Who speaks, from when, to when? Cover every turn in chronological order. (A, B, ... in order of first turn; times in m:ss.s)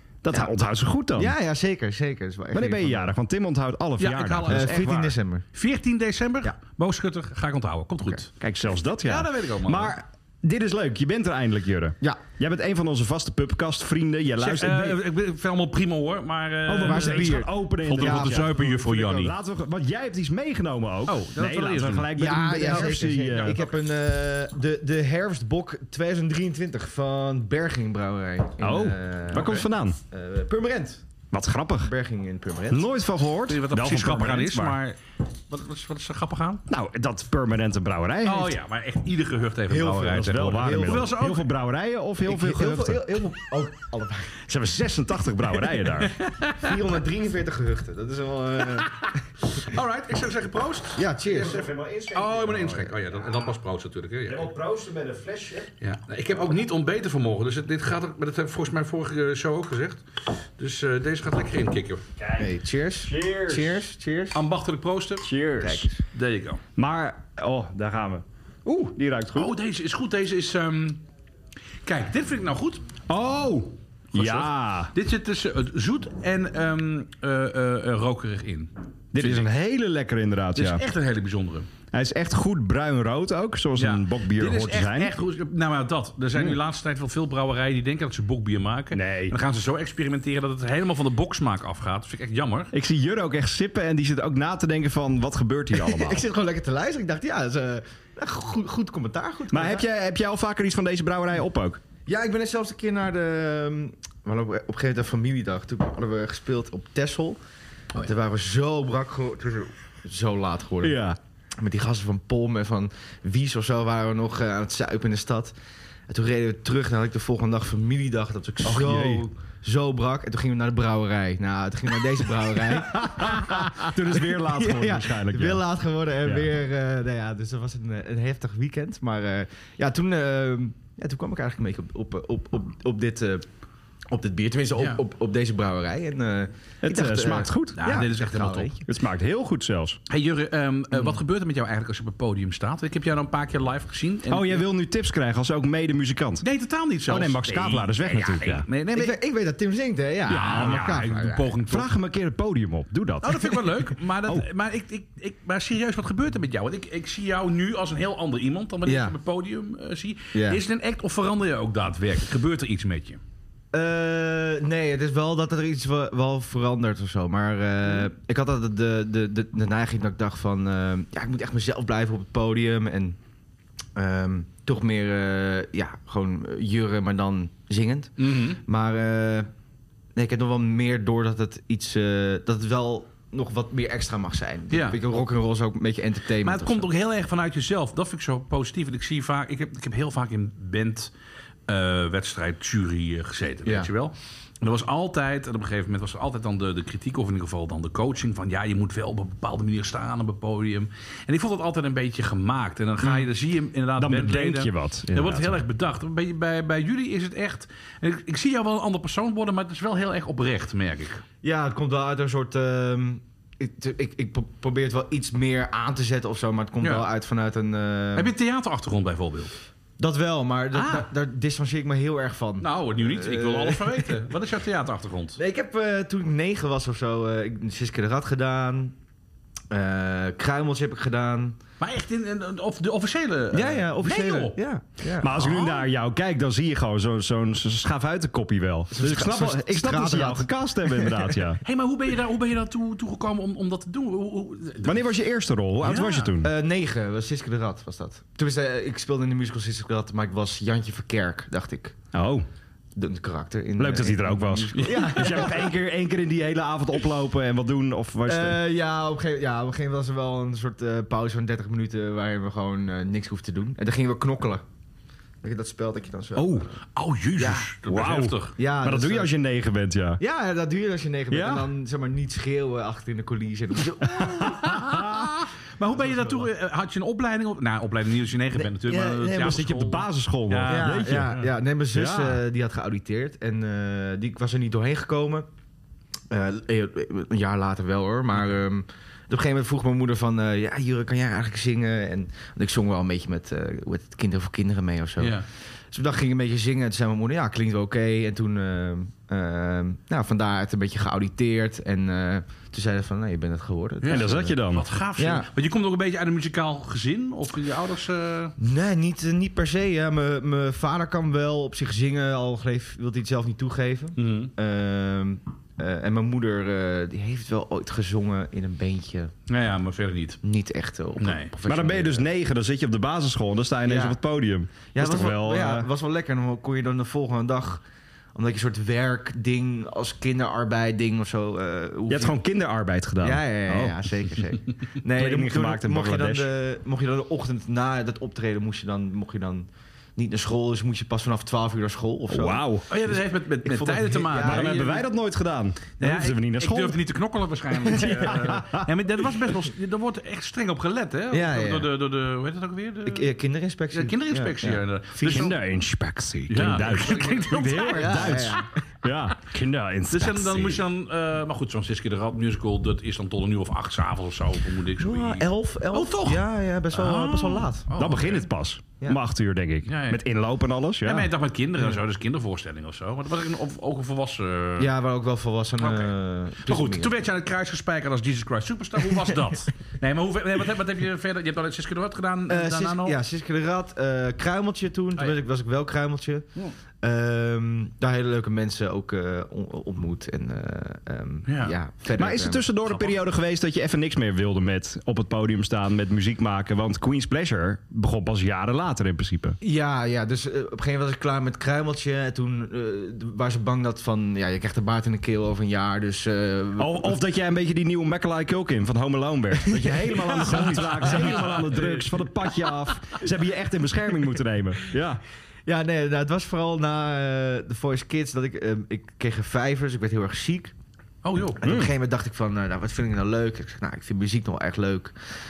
0:00.2-0:01.3 A
0:01.2-0:03.1 B
0:02.5-0:05.1 A
0:04.0-0:04.9 C
0:04.5-0:05.4 B
0:05.5-0:08.3 C
0:08.4-0:15.0 A
0:09.0-0:09.9 C
0:14.4-0:19.3 C
0:16.6-0:23.6 A
0:16.8-0:19.0 B
0:21.0-0:23.6 C
0:22.1-0:31.0 B
0:28.6-0:30.0 A
0:31.3-0:31.9 A
0:31.8-0:32.9 B
0:32.7-0:34.8 A
0:33.5-0:36.6 C
0:36.7-0:38.6 A
0:38.2-0:41.5 C
0:39.7-0:41.2 B
0:40.1-0:43.3 A
0:42.2-0:44.5 B
0:44.5-0:46.1 A
0:45.8-0:46.7 C
0:46.5-0:49.4 B
0:48.7-0:54.5 C
0:50.9-0:51.6 B
0:51.2-0:52.9 A
0:54.2-0:55.7 A
0:55.8-1:02.0 C
1:02.2-1:03.8 A
1:02.4-1:04.4 B
1:04.3-1:05.3 C
1:05.2-1:05.9 A
1:05.6-1:06.0 B
1:06.0-1:06.6 C
1:06.8-1:09.5 A
1:09.3-1:11.0 C
1:11.8-1:12.8 C
1:13.1-1:14.9 A
1:14.1-1:19.5 C
1:19.1-1:20.8 A
1:20.5-1:21.7 C
1:21.9-1:25.2 A
1:23.8-1:32.7 C
1:28.9-1:29.4 A
1:32.7-1:36.2 A
1:35.7-1:39.8 B
1:39.5-1:41.8 A
1:42.1-1:47.4 B
1:47.9-1:51.0 B
1:50.8-1:51.2 A
1:51.6-1:55.5 B
1:56.1-2:13.4 B
1:58.6-1:59.3 A
2:02.7-2:05.6 A
2:06.2-2:06.5 A
2:14.1-2:18.8 B
2:14.8-2:15.0 C
2:16.8-2:17.8 A
2:17.8-2:18.7 C
2:18.9-2:20.0 A
2:20.1-2:24.6 C
2:24.3-2:26.4 A
2:26.4-2:29.2 C
2:27.1-2:28.6 A
2:28.9-2:31.6 B
2:30.3-2:31.1 A
2:30.3-2:31.9 C
2:31.7-2:33.6 A
2:33.2-2:43.2 C
2:38.8-2:39.2 B
2:40.3-2:40.6 B
2:43.7-2:53.2 B
2:54.0-2:59.5 B
2:58.2-2:58.6 C
3:00.1-3:06.9 B
3:04.7-3:05.0 C
3:06.4-3:11.1 C
3:11.7-3:31.2 C
3:24.0-3:25.6 A
3:31.4-3:38.3 B
3:38.1-3:39.5 C
3:40.0-3:44.2 B
3:40.7-3:41.1 C
3:42.6-3:45.4 C
3:45.4-3:48.9 B
3:49.7-3:51.6 B
3:51.8-3:54.6 C
3:53.5-3:55.6 B
3:55.2-4:01.6 A
3:55.4-3:55.8 C
3:58.9-4:01.4 B
4:01.6-4:05.1 C
4:04.8-4:06.5 A
4:05.8-4:06.3 C
4:06.3-4:12.0 B
4:12.1-4:12.4 A
4:12.9-4:15.7 B
4:13.8-4:18.6 A
4:14.7-4:15.5 C
4:18.2-4:24.6 B
4:25.4-4:26.8 B
4:26.3-4:26.7 A
4:26.9-4:28.6 C
4:27.4-4:27.7 B
4:27.9-4:30.2 A
4:28.6-4:29.3 B
4:30.2-4:34.6 B
4:31.3-4:31.6 A
4:34.0-4:35.3 A
4:34.4-4:41.5 C
4:36.0-4:36.4 B
4:38.6-4:39.6 B
4:39.3-4:41.4 A
4:40.7-4:45.4 B
4:41.9-4:42.4 A
4:46.3-5:04.6 B
4:55.2-4:55.5 C
5:04.0-5:08.5 C
5:04.1-5:04.8 A
5:05.2-5:05.5 B
5:08.6-5:19.3 B
5:14.2-5:14.5 C
5:19.5-5:20.4 C
5:20.4-5:22.2 B
5:21.2-5:21.5 C
5:21.6-5:25.9 A
5:23.8-5:24.2 B
5:24.9-5:27.8 B
5:28.3-5:32.4 B
5:32.1-5:34.0 A
5:33.2-5:45.0 B
5:35.2-5:36.5 A
5:42.3-5:42.9 A
5:42.9-5:45.0 C
5:44.3-5:47.0 A
5:46.0-5:53.3 C
5:47.8-5:48.6 B
5:48.2-5:48.9 A
5:51.3-5:51.9 B
5:53.0-5:55.5 B
5:53.9-5:55.6 C
5:55.2-6:00.8 A
5:56.5-5:58.6 C
5:56.9-5:58.7 B
6:00.1-6:08.5 C
6:05.0-6:07.9 B
6:08.0-6:11.3 A
6:09.9-6:10.2 C
6:11.0-6:14.9 C
6:14.8-6:17.1 B
6:15.8-6:16.1 C
6:16.6-6:23.2 C
6:22.5-6:32.7 B
6:31.5-6:31.8 C
6:32.2-6:39.6 A
6:32.9-6:33.2 C
6:39.6-6:47.2 B
6:46.8-6:55.2 A
6:49.5-6:51.8 B
6:50.4-6:52.2 C
6:55.6-7:00.7 B
7:01.2-7:01.6 C
7:01.6-7:05.1 B
7:01.6-7:01.9 A